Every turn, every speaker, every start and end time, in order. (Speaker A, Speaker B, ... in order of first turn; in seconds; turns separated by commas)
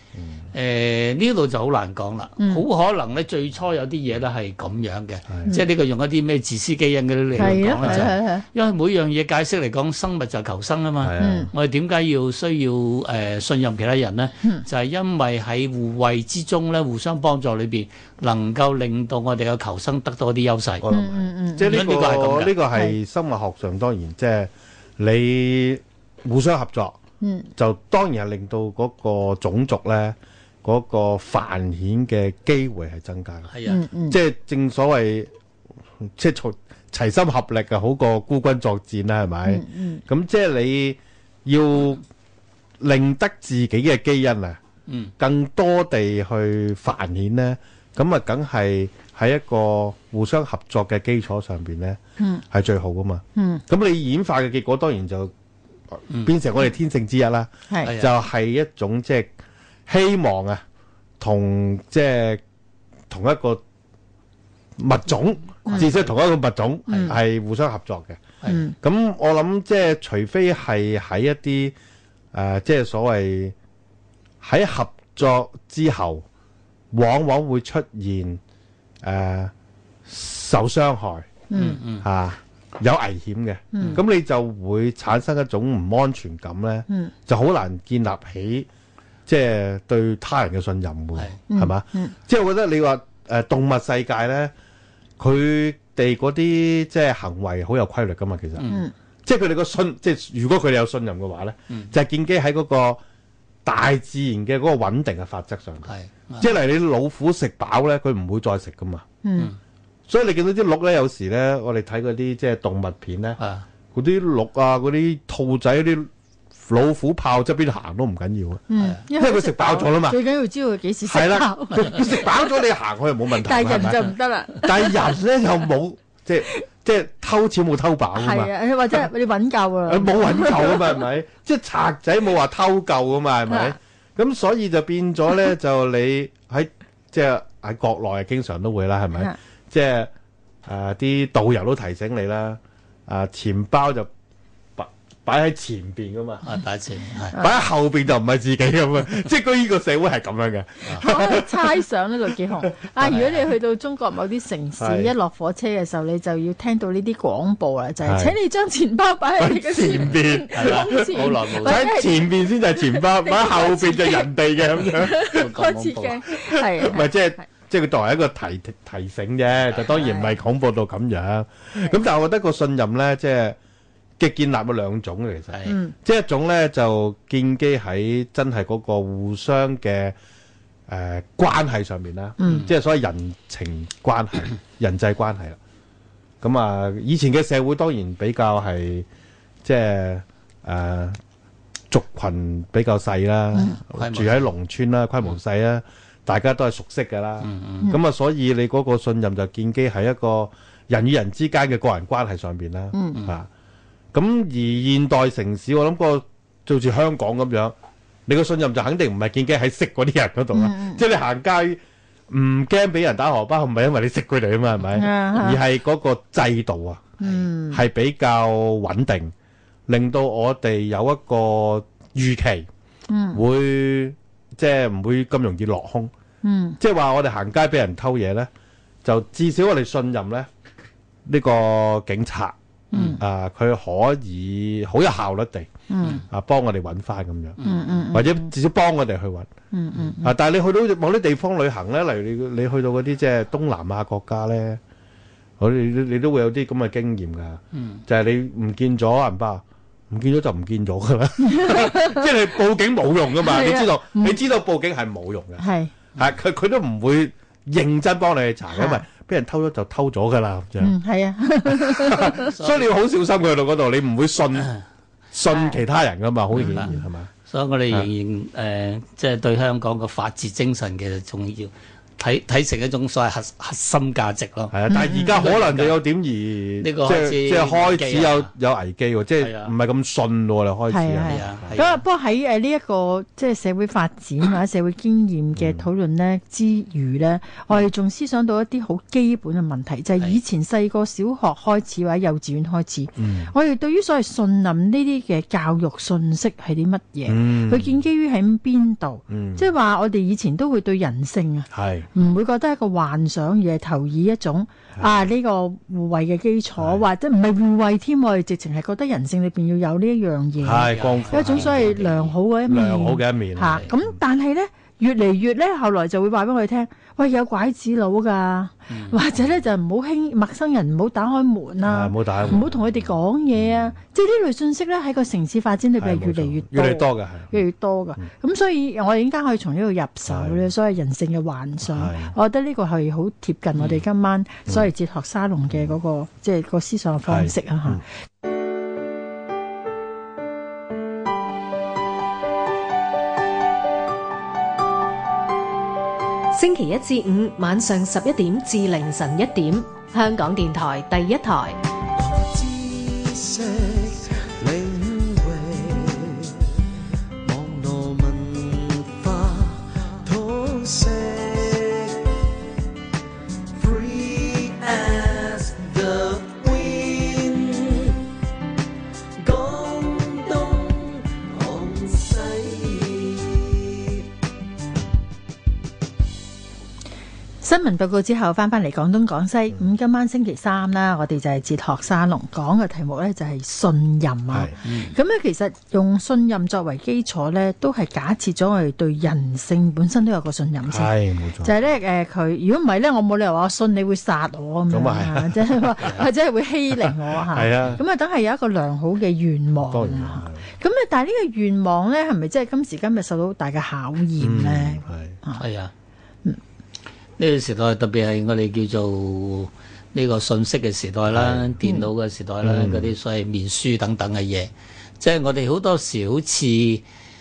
Speaker A: 0.2-0.4, Speaker B: 0.5-20.8, Speaker C: 2.4-2.6, Speaker A: 5.3-5.5, Speaker A: 7.3-8.1, Speaker C: 7.4-8.4, Speaker A: 11.0-11.5, Speaker C: 11.2-11.5, Speaker A: 20.8-27.0, Speaker C: 20.9-21.8, Speaker B: 21.6-22.6, Speaker C: 27.2-27.5, Speaker A: 27.6-35.3, Speaker B: 33.5-33.8, Speaker C: 33.6-34.2, Speaker A: 36.0-42.0, Speaker C: 39.5-40.0, Speaker A: 42.8-44.6, Speaker B: 44.9-45.1, Speaker A: 45.2-52.0, Speaker C: 52.2-52.4, Speaker A: 52.5-55.3, Speaker C: 53.3-53.6, Speaker A: 55.9-59.3, Speaker C: 57.7-57.9, Speaker B: 57.8-58.1, Speaker A: 59.9-60.6, Speaker A: 61.2-62.4, Speaker A: 63.1-63.6, Speaker A: 64.8-68.2, Speaker B: 65.6-66.1, Speaker B: 66.9-67.2, Speaker C: 68.4-68.7, Speaker A: 68.8-71.7, Speaker A: 72.3-73.5, Speaker A: 74.4-76.2, Speaker A: 76.9-78.4, Speaker A: 79.0-79.5, Speaker A: 80.0-81.4, Speaker C: 81.5-81.8, Speaker B: 81.5-82.0, Speaker A: 81.9-88.7, Speaker C: 83.7-84.0, Speaker A: 89.3-94.5, Speaker C: 91.5-92.1, Speaker A: 95.2-98.7, Speaker B: 98.6-98.8, Speaker A: 99.2-103.0, Speaker A: 103.6-109.0, Speaker B: 105.9-106.5, Speaker C: 109.2-109.5, Speaker A: 110.1-113.4, Speaker B: 113.4-113.6, Speaker A: 113.9-116.1, Speaker A: 116.7-120.2, Speaker C: 118.7-122.6, Speaker A: 121.0-129.1, Speaker C: 123.3-125.2, Speaker C: 128.1-131.0, Speaker A: 129.9-140.1, Speaker A: 140.7-144.1, Speaker A: 144.8-146.4, Speaker B: 146.4-147.4, Speaker A: 147.3-151.8, Speaker C: 150.9-164.3, Speaker A: 152.7-153.2, Speaker B: 153.0-153.4, Speaker A: 154.8-155.1, Speaker A: 158.0-158.4, Speaker A: 159.4-165.6, Speaker B: 160.5-161.9, Speaker C: 164.8-167.4, Speaker B: 165.1-166.2, Speaker A: 166.2-173.6, Speaker C: 169.8-170.3, Speaker A: 174.2-180.1, Speaker C: 175.7-175.9, Speaker A: 180.9-185.6, Speaker C: 182.4-182.7, Speaker A: 186.4-189.1, Speaker A: 189.6-191.2, Speaker A: 191.9-203.5, Speaker B: 193.6-194.5, Speaker B: 197.4-197.9, Speaker C: 202.9-203.2, Speaker A: 204.1-207.7, Speaker A: 208.3-219.3, Speaker C: 210.5-211.0, Speaker C: 214.9-215.6, Speaker C: 217.2-217.8, Speaker A: 219.9-222.7, Speaker C: 223.1-223.4, Speaker A: 223.3-226.1, Speaker C: 226.4-226.8, Speaker A: 226.8-228.5, Speaker A: 229.0-230.5, Speaker A: 231.2-232.5, Speaker B: 232.9-233.2, Speaker A: 233.2-235.7, Speaker C: 235.9-236.2, Speaker A: 236.3-237.6, Speaker B: 237.6-237.9, Speaker C: 237.6-238.5, Speaker A: 238.1-239.5, Speaker C: 239.7-240.3, Speaker A: 240.2-244.8, Speaker A: 245.6-255.6, Speaker B: 247.7-248.0, Speaker C: 251.4-252.2, Speaker C: 253.4-254.3, Speaker C: 255.6-255.9, Speaker A: 256.1-260.9, Speaker C: 258.7-259.1, Speaker C: 260.8-262.4, Speaker A: 261.6-264.7, Speaker B: 262.4-262.9, Speaker A: 265.3-267.3, Speaker C: 265.5-265.8, Speaker B: 266.5-266.9, Speaker C: 266.7-267.0, Speaker B: 267.4-276.0, Speaker A: 274.7-281.8, Speaker C: 274.9-275.3, Speaker B: 276.8-278.5, Speaker B: 279.4-279.7, Speaker C: 280.9-338.0, Speaker B: 281.2-282.0, Speaker A: 285.6-285.8, Speaker A: 293.2-293.5, Speaker A: 297.2-298.0, Speaker A: 299.3-299.7, Speaker A: 301.7-302.1, Speaker A: 304.9-305.3, Speaker A: 306.8-307.1, Speaker A: 310.6-312.1, Speaker B: 310.8-312.3, Speaker A: 312.6-314.1, Speaker B: 318.9-319.2, Speaker A: 321.8-323.9, Speaker A: 326.0-327.6, Speaker A: 330.3-330.6, Speaker A: 331.8-332.3, Speaker B: 333.8-334.0, Speaker A: 335.7-336.0, Speaker A: 337.2-338.0, Speaker D: 346.5-351.8, Speaker E: 352.1-356.6, Speaker E: 357.4-362.4, Speaker E: 363.8-368.2, Speaker E: 369.4-374.2, Speaker C: 377.6-405.6, Speaker A: 384.5-384.8, Speaker B: 384.8-385.1, Speaker A: 390.9-391.7, Speaker A: 394.9-396.2, Speaker A: 397.1-398.0, Speaker A: 399.8-400.6, Speaker A: 404.4-405.4, Speaker B: 405.6-405.9, Speaker B: 407.4-417.0, Speaker A: 411.3-411.8, Speaker A: 412.6-413.1